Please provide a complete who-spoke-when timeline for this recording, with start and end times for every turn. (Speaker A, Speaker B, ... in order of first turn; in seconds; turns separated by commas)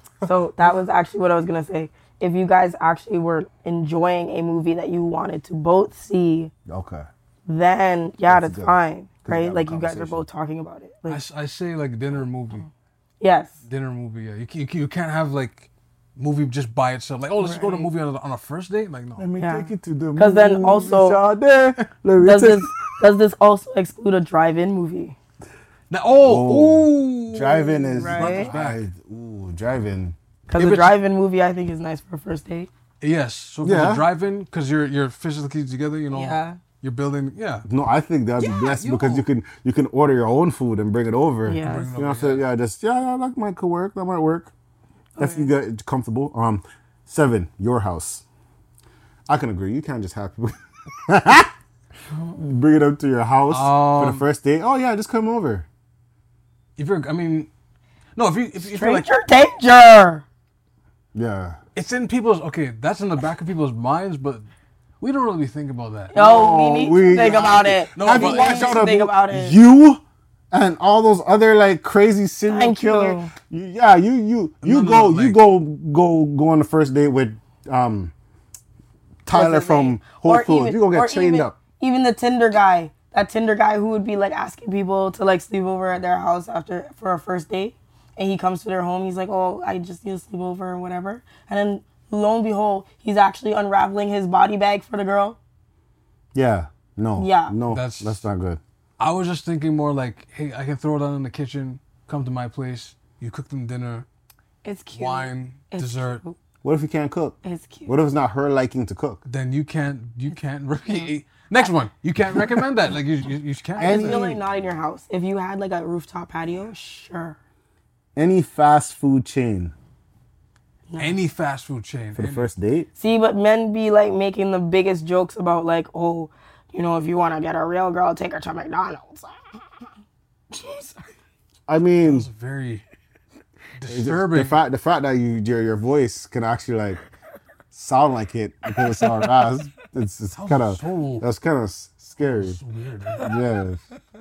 Speaker A: 0.2-6.5, Speaker B: 6.7-7.1, Speaker A: 7.5-11.2, Speaker B: 8.3-10.2, Speaker C: 11.1-12.7, Speaker A: 13.2-13.5, Speaker C: 13.6-19.3, Speaker A: 17.4-17.9, Speaker B: 19.2-22.7, Speaker A: 19.4-21.2, Speaker A: 22.2-25.1, Speaker C: 25.9-28.8, Speaker B: 26.2-30.1, Speaker A: 27.9-28.5, Speaker A: 30.5-32.7, Speaker C: 30.6-31.0, Speaker C: 33.0-37.6, Speaker B: 33.6-34.1, Speaker A: 36.1-36.6, Speaker B: 37.7-44.5, Speaker C: 38.4-39.2, Speaker A: 41.5-41.9, Speaker C: 41.6-42.5, Speaker A: 45.1-45.5, Speaker B: 45.2-48.2, Speaker B: 49.3-51.5, Speaker B: 52.3-55.6, Speaker C: 53.5-54.2, Speaker C: 56.8-57.5, Speaker C: 58.1-59.1, Speaker A: 58.6-60.2, Speaker B: 61.1-61.6, Speaker C: 61.7-64.4, Speaker C: 65.0-66.1, Speaker A: 66.1-69.6, Speaker B: 66.1-78.1, Speaker C: 67.2-68.8, Speaker A: 72.5-73.3, Speaker C: 74.6-75.4, Speaker B: 79.2-81.6, Speaker A: 79.3-95.4, Speaker B: 96.3-98.6, Speaker A: 97.2-97.5, Speaker C: 97.7-98.2, Speaker C: 99.0-104.0, Speaker A: 104.6-106.3, Speaker C: 104.9-106.2, Speaker B: 106.6-109.2, Speaker A: 107.4-108.0, Speaker C: 109.2-114.4, Speaker B: 113.8-114.4, Speaker A: 113.8-117.4, Speaker B: 118.2-119.7, Speaker A: 120.9-121.2, Speaker C: 121.0-122.5, Speaker B: 122.1-122.9, Speaker A: 123.0-129.3, Speaker A: 130.5-131.1, Speaker B: 131.7-132.3, Speaker C: 132.0-132.8, Speaker C: 133.8-134.6, Speaker B: 133.9-137.0, Speaker B: 137.7-142.6, Speaker C: 140.3-141.2, Speaker C: 142.2-143.3, Speaker B: 143.2-143.8